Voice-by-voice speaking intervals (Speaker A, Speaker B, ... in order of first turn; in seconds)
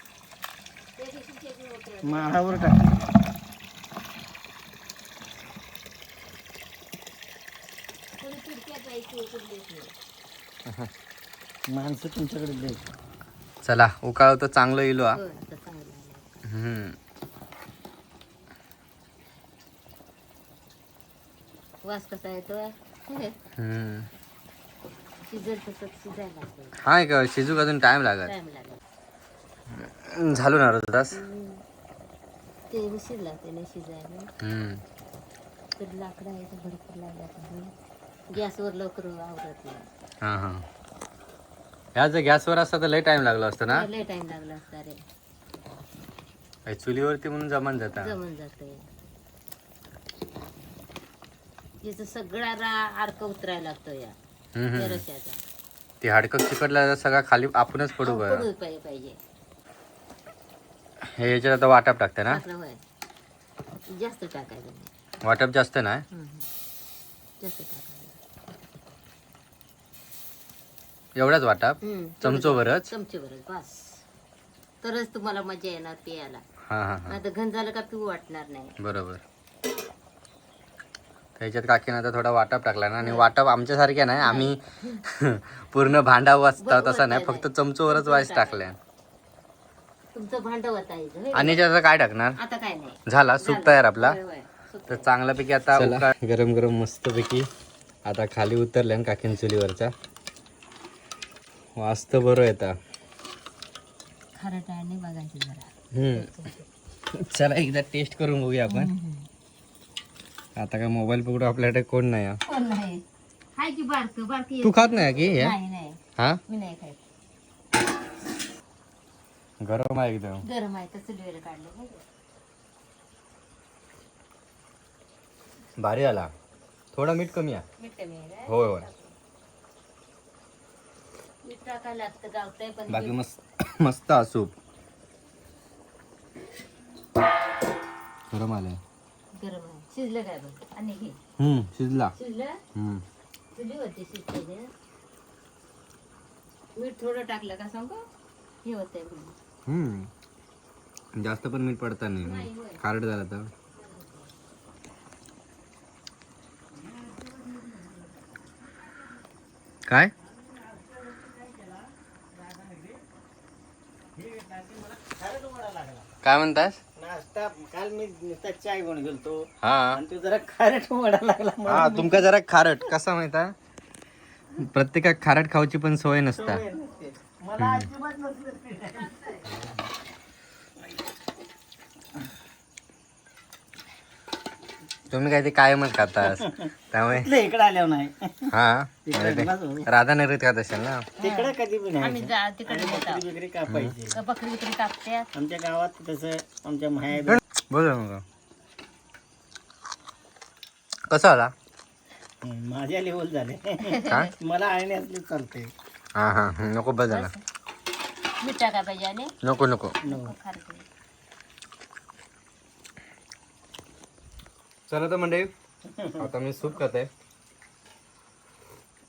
Speaker A: 1.0-2.4, 8.2-9.9, 15.1-16.4, 21.8-23.3, 25.2-26.8, 28.2-28.8, 31.1-31.6, 32.7-34.3, 35.8-37.7, 38.3-39.9, 43.6-45.0, 47.9-48.9, 51.8-54.1, 54.7-55.4, 58.0-59.2, 62.3-62.8, 63.9-64.9, 66.1-66.5, 67.4-68.2, 71.8-74.0, 74.8-76.4, 77.1-78.7, 83.0-83.3, 84.2-85.0, 86.6-88.7, 90.1-91.7, 92.4-95.1, 104.3-106.7, 108.7-109.3, 112.5-113.0, 113.5-117.0, 120.4-122.0, 127.8-129.1, 131.4-133.2, 139.3-141.2, 142.1-142.6, 143.5-144.7, 146.7-148.0, 148.6-149.3, 152.2-152.8, 153.8-154.3, 179.0-179.4, 191.2-193.2, 194.1-195.3, 203.8-204.3, 207.1-207.4, 208.4-209.3, 210.0-210.8
Speaker B: 2.0-3.1, 11.7-12.8, 156.8-158.0, 160.2-163.0, 164.2-166.1, 166.9-172.3, 176.3-179.3, 186.2-188.5, 189.1-189.9, 191.2-194.2, 195.3-197.4, 202.4-205.7, 210.0-210.3, 215.9-216.3
Speaker C: 13.6-15.2, 16.5-16.9, 23.6-24.1, 26.8-28.3, 29.8-31.2, 34.4-34.8, 40.2-40.6, 41.9-43.9, 46.7-48.1, 54.5-55.0, 56.0-58.4, 61.2-62.4, 65.2-66.0, 71.2-72.9, 76.7-77.2, 78.8-79.2, 81.4-88.8, 91.3-92.3, 93.1-94.2, 94.9-97.5, 98.0-99.9, 101.8-102.7, 105.9-106.3, 107.2-108.9, 110.6-112.4, 114.6-115.5, 119.6-120.4, 125.8-126.3, 126.9-127.6, 128.5-128.8, 132.9-134.5, 138.3-138.8, 141.4-142.1, 142.7-143.0, 149.7-150.1, 151.2-153.5, 159.9-160.1, 166.2-166.8, 169.6-170.0, 171.7-173.5, 174.6-176.6, 177.6-177.9, 185.1-187.3, 188.5-191.0, 193.7-193.9, 197.2-198.2, 201.1-201.5, 204.1-204.3, 206.2-207.3, 209.4-210.0, 214.9-215.5, 216.2-217.1